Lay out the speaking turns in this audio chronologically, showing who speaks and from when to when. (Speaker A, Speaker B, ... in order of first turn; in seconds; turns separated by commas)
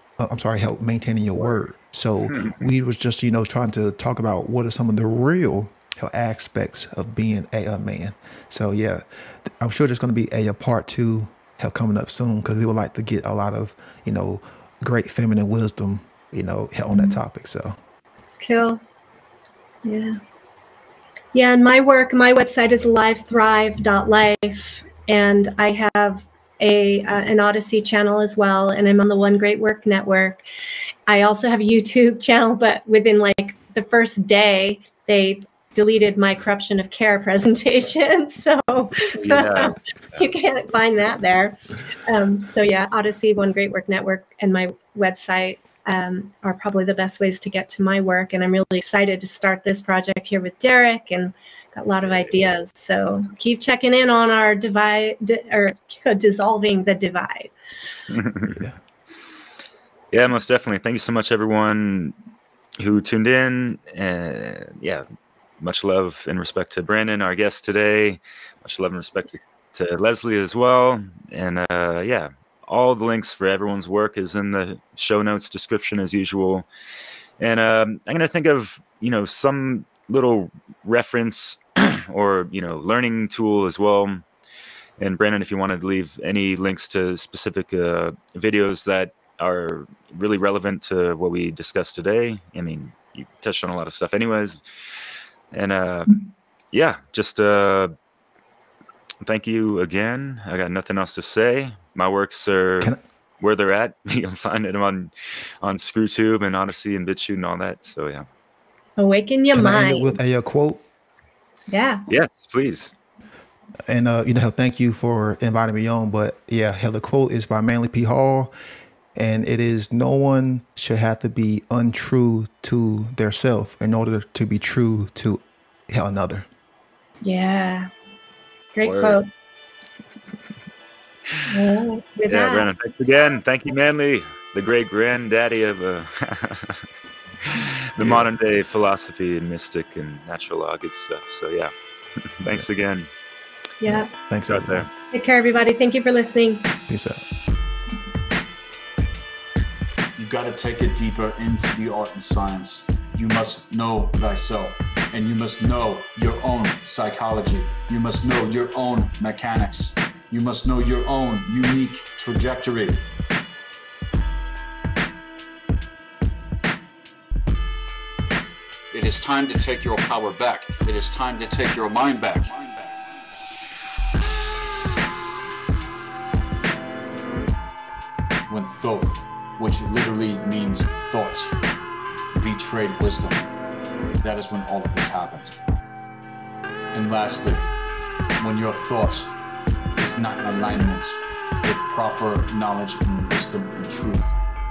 Speaker A: 0.2-17.8, Speaker B: 18.4-18.8, Speaker B: 19.8-20.2, Speaker B: 21.3-30.4, Speaker B: 31.1-57.5, Speaker C: 39.2-40.2, Speaker C: 58.1-58.6, Speaker C: 60.1-62.1, Speaker C: 62.8-65.0, Speaker C: 65.6-76.7, Speaker C: 77.4-84.2, Speaker C: 85.0-96.2, Speaker C: 96.7-97.9, Speaker C: 99.2-108.3, Speaker B: 109.0-110.1, Speaker A: 109.5-110.8, Speaker B: 111.7-112.0, Speaker C: 112.1-112.9, Speaker A: 113.9-118.5, Speaker A: 119.2-126.5, Speaker B: 127.2-127.9, Speaker B: 128.8-129.3, Speaker C: 128.8-129.2, Speaker B: 131.5-132.7, Speaker C: 132.3-136.9, Speaker C: 137.4-141.7, Speaker A: 138.0-138.3, Speaker C: 142.4-143.1, Speaker B: 143.8-144.1, Speaker A: 143.9-144.9, Speaker C: 144.5-144.9, Speaker B: 145.1-146.7, Speaker A: 146.9-147.2, Speaker D: 150.2-163.1, Speaker D: 168.9-173.3, Speaker D: 178.5-181.6, Speaker D: 182.3-183.5, Speaker D: 184.2-185.6, Speaker D: 186.9-187.7, Speaker D: 188.4-189.3, Speaker D: 190.0-194.3